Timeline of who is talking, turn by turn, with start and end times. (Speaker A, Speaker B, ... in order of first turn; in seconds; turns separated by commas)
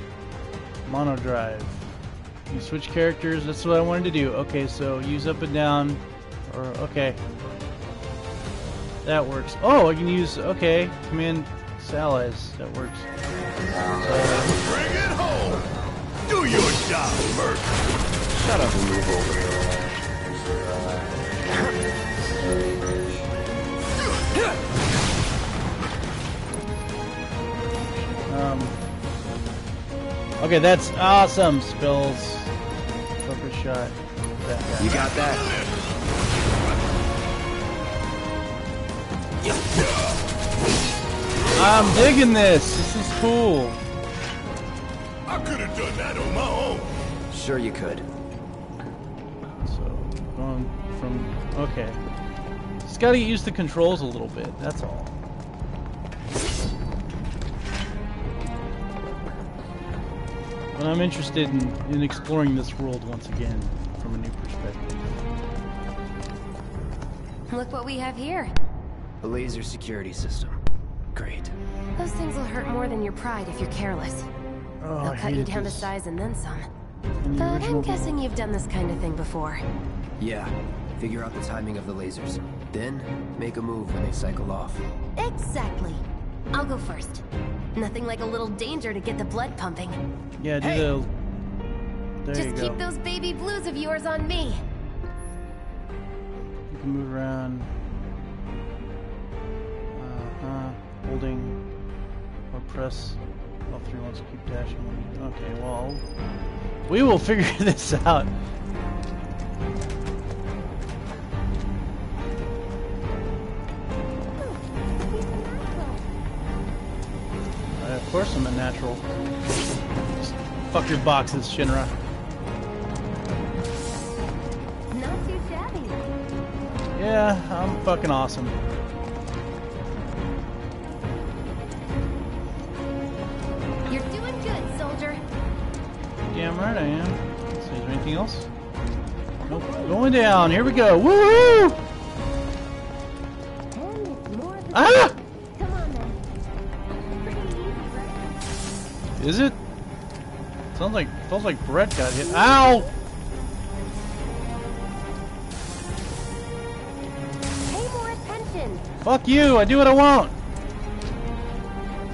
Speaker A: 0.9-1.9, Speaker A: 2.5-7.2, Speaker A: 9.1-13.1, Speaker A: 14.0-14.5, Speaker B: 14.6-15.7, Speaker B: 16.3-17.8, Speaker C: 18.3-19.5, Speaker B: 24.0-24.6, Speaker A: 28.3-28.8, Speaker A: 30.4-32.5, Speaker A: 33.2-35.0, Speaker C: 34.8-35.5, Speaker B: 34.8-36.0, Speaker B: 39.5-40.2, Speaker B: 41.4-42.0, Speaker A: 41.6-43.8, Speaker B: 45.3-47.0, Speaker C: 47.3-48.0, Speaker A: 49.6-52.0, Speaker A: 52.8-55.1, Speaker A: 60.7-65.2, Speaker D: 67.5-68.5, Speaker C: 69.2-70.6, Speaker C: 71.1-71.5, Speaker D: 72.0-74.3, Speaker A: 74.8-75.9, Speaker D: 75.0-76.7, Speaker A: 77.2-78.2, Speaker D: 77.4-79.6, Speaker C: 80.2-84.8, Speaker D: 85.2-87.2, Speaker D: 87.8-90.0, Speaker A: 90.4-91.1, Speaker A: 92.2-92.8, Speaker D: 92.3-94.6, Speaker A: 96.7-97.7, Speaker A: 99.9-101.6, Speaker A: 102.5-106.0, Speaker A: 106.9-108.3, Speaker D: 114.4-116.0, Speaker A: 117.8-119.0, Speaker A: 120.2-121.9, Speaker D: 124.9-126.0, Speaker A: 127.0-128.6, Speaker D: 133.9-135.2, Speaker A: 136.3-138.5, Speaker D: 139.4-140.0, Speaker A: 139.5-141.8, Speaker D: 143.7-146.2, Speaker A: 144.7-145.2, Speaker D: 147.0-148.3, Speaker A: 149.2-149.6, Speaker A: 150.7-152.9, Speaker D: 152.3-152.8, Speaker D: 157.7-158.8, Speaker A: 159.0-160.3